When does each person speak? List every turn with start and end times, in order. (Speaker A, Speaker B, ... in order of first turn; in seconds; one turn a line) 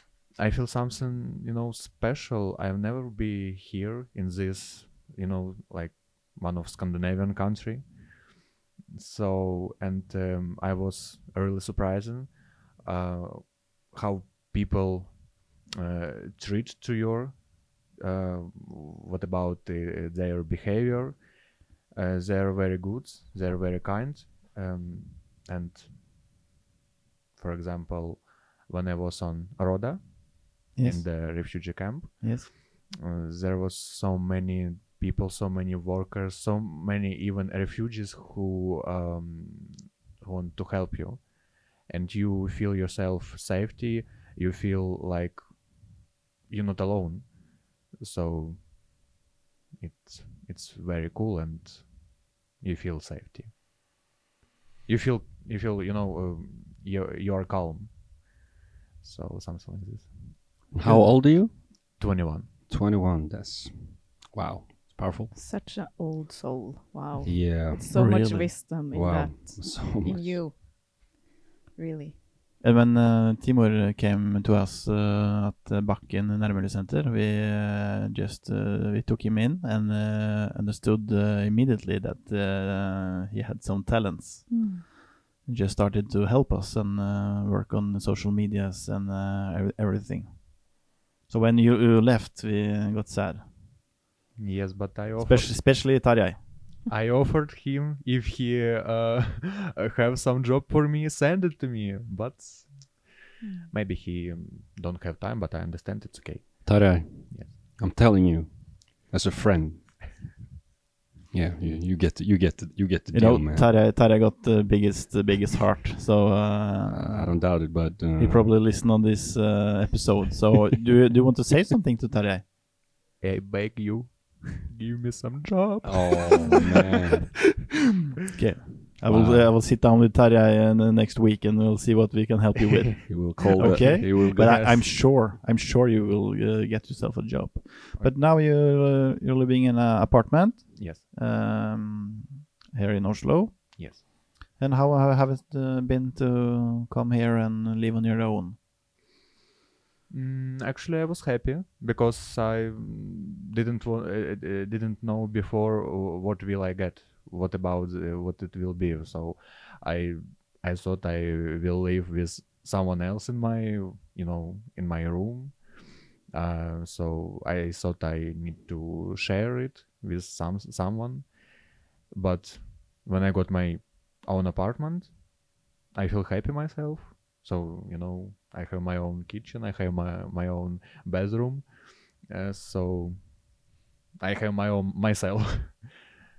Speaker A: 0.4-8.0
Speaker A: 8.9-21.2
Speaker A: 21.9-26.0
Speaker A: 27.4-45.4
Speaker B: 30.8-31.6
Speaker B: 32.2-32.5
Speaker A: 46.5-47.3
Speaker A: 48.0-48.7
Speaker A: 49.8-53.5
Speaker A: 54.9-58.0
Speaker A: 59.0-60.1
Speaker C: 60.7-61.5
Speaker B: 60.8-61.2
Speaker A: 62.0-62.5
Speaker C: 62.7-65.3
Speaker D: 65.3-70.6
Speaker C: 67.2-67.9
Speaker B: 67.9-68.5
Speaker C: 68.9-70.4
Speaker D: 71.8-72.2
Speaker B: 72.6-84.7
Speaker D: 84.5-84.8
Speaker B: 85.5-90.7
Speaker B: 91.3-93.5
Speaker A: 94.4-95.6
Speaker B: 95.2-96.4
Speaker A: 96.9-103.1
Speaker D: 103.4-103.7
Speaker A: 103.7-107.5
Speaker C: 106.7-109.8
Speaker C: 111.3-113.7
Speaker B: 113.1-117.3
Speaker C: 116.9-118.5
Speaker B: 118.2-122.5
Speaker A: 123.2-126.9
Speaker C: 125.8-127.4
Speaker B: 128.3-144.0
Speaker C: 129.1-129.5
Speaker C: 133.1-134.9
Speaker A: 140.8-141.0
Speaker A: 143.8-144.0
Speaker B: 144.6-148.6
Speaker A: 150.1-165.6
Speaker A: 166.3-171.3
Speaker A: 172.1-175.2
Speaker A: 175.9-181.7
Speaker A: 182.2-183.4
Speaker A: 184.2-186.0